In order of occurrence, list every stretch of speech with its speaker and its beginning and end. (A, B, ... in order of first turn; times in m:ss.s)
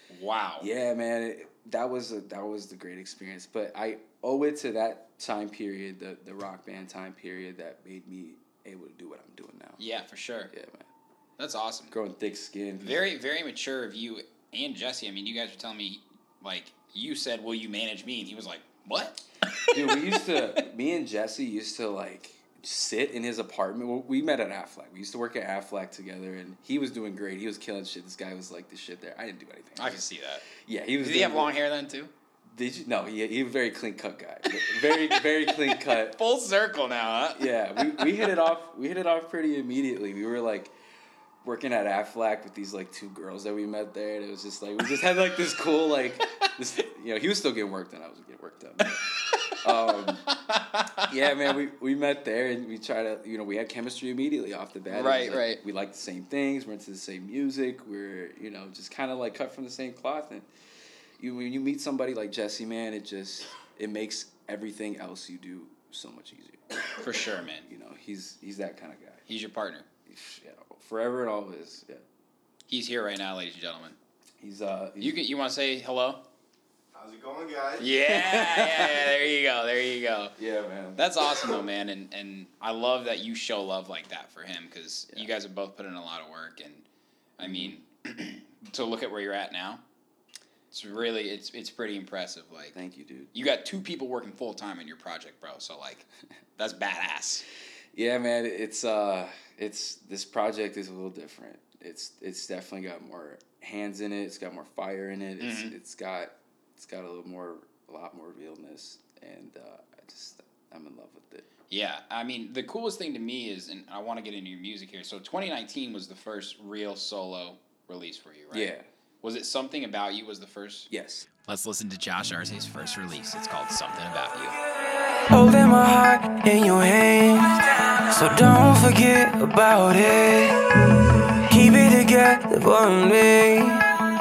0:00.1-0:00.7 A
0:00.6-0:09.8 B
0:09.8-0:10.5 A
0:10.5-0:10.9 B
0:11.4-0:11.9 A
0:11.9-0:13.0 B
0:12.8-0:20.4 A
0:19.7-0:31.6 B
0:29.8-0:30.4 A
0:31.0-0:32.1 A
0:32.5-0:36.2 B
0:34.6-0:38.3 A
0:37.4-0:40.8 B
0:41.4-0:50.3 B
0:48.8-0:51.0 A
0:51.0-1:00.5 B
0:54.9-0:55.6 A
1:01.2-1:07.0 B
1:07.0-1:07.7 A
1:07.6-1:09.2 B
1:09.3-1:09.9 A
1:10.1-1:12.0 B
1:12.7-1:14.0 A
1:14.4-1:15.2 B
1:15.0-1:16.2 A
1:17.0-1:19.1 B
1:17.8-1:20.3 A
1:20.4-1:21.6 B
1:21.0-1:26.8 A
1:27.4-1:29.8 A
1:27.4-1:27.8 B
1:30.7-1:32.8 A
1:32.7-1:33.3 B
1:33.3-1:36.0 A
1:36.6-1:37.4 A
1:37.9-1:51.5 B
1:45.4-1:45.8 A
1:51.7-2:00.9 A
1:58.5-1:58.8 B
2:00.9-2:01.3 B
2:01.4-2:04.6 A
2:05.3-2:13.9 C